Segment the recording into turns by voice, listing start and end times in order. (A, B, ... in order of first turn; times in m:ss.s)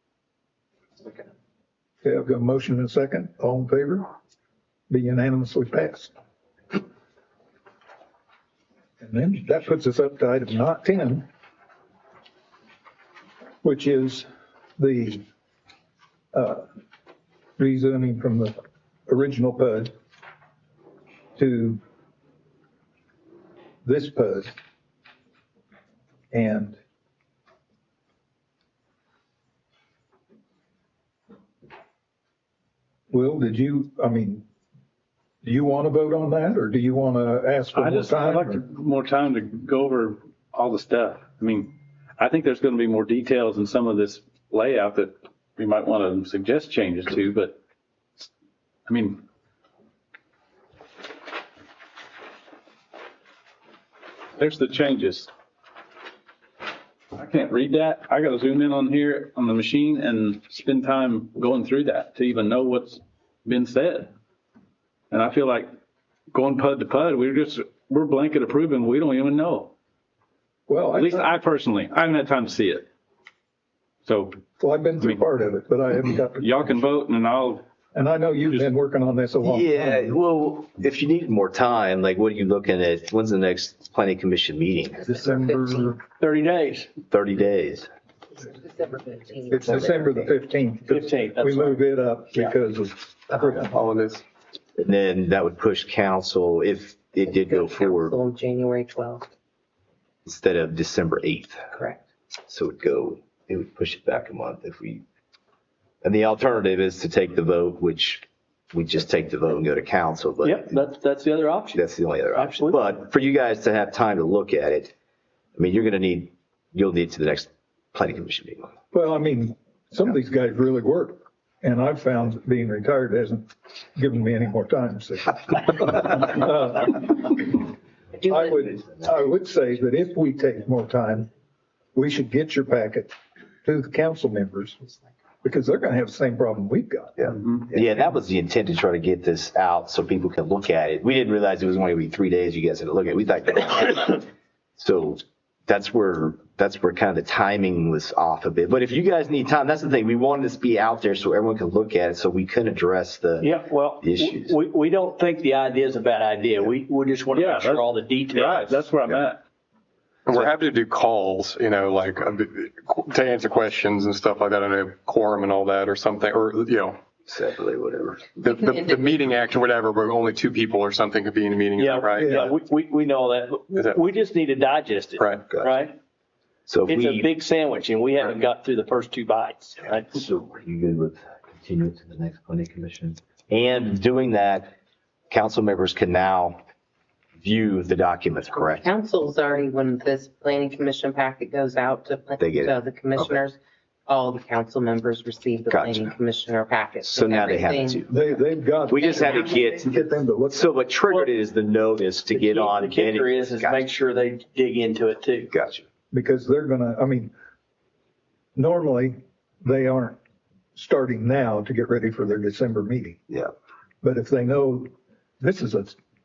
0:02.0-0:04.1 A
0:04.9-0:06.1 A
0:09.0-0:11.2 A
0:13.6-0:15.2 A
0:16.3-0:16.6 A
0:17.6-0:18.5 A
0:19.1-0:19.9 A
0:21.4-0:21.8 A
0:23.8-0:24.6 A
0:26.3-0:26.8 A
0:33.1-0:34.4 A
0:35.4-0:38.6 A
0:37.7-0:47.6 B
0:48.9-0:49.2 B
0:54.4-0:55.3 B
0:57.1-1:04.1 B
1:05.1-1:05.7 B
1:06.3-1:09.7 B
1:10.7-1:11.3 A
1:10.9-1:12.8 B
1:14.0-1:14.4 B
1:14.6-1:16.7 A
1:16.3-1:17.6 B
1:17.9-1:20.0 A
1:19.4-1:25.0 C
1:25.0-1:26.0 D
1:25.1-1:26.0 A
1:26.2-1:26.9 E
1:27.1-1:27.9 C
1:28.3-1:30.2 D
1:29.5-1:33.8 A
1:30.9-1:31.8 E
1:33.7-1:34.2 F
1:34.8-1:38.2 C
1:37.2-1:39.3 D
1:40.2-1:41.8 C
1:41.7-1:42.0 D
1:42.5-1:45.0 C
1:46.0-1:50.7 C
1:50.4-1:51.8 E
1:51.7-1:54.9 C
1:52.3-1:52.8 E
1:55.6-1:58.7 C
1:58.9-2:07.7 A
2:08.2-2:08.5 D
2:08.2-2:11.3 A
2:11.9-2:13.1 A
2:13.6-2:14.8 A
2:15.4-2:17.2 A
2:17.2-2:24.3 C
2:24.8-2:34.6 C
2:33.4-2:38.8 E
2:37.3-2:39.4 B
2:40.2-2:47.0 F
2:47.3-2:48.3 C
2:48.4-2:52.4 F
2:48.6-2:48.9 D
2:51.8-2:56.0 E
2:52.2-2:52.5 A
2:53.7-2:54.0 F
2:55.2-2:55.4 F
2:56.7-2:57.3 C
2:56.9-3:00.2 E
3:00.1-3:04.7 C
3:05.3-3:06.6 C
3:07.4-3:08.8 C
3:08.6-3:18.1 D
3:12.4-3:13.4 C
3:15.7-3:16.1 C
3:17.0-3:18.1 C
3:18.1-3:20.7 A
3:18.9-3:19.8 C
3:18.9-3:20.0 D
3:20.5-3:23.8 C
3:22.3-3:25.5 E
3:25.5-3:25.8 C
3:26.1-3:27.3 A
3:28.6-3:30.2 A
3:30.7-3:33.2 A
3:34.0-3:36.0 A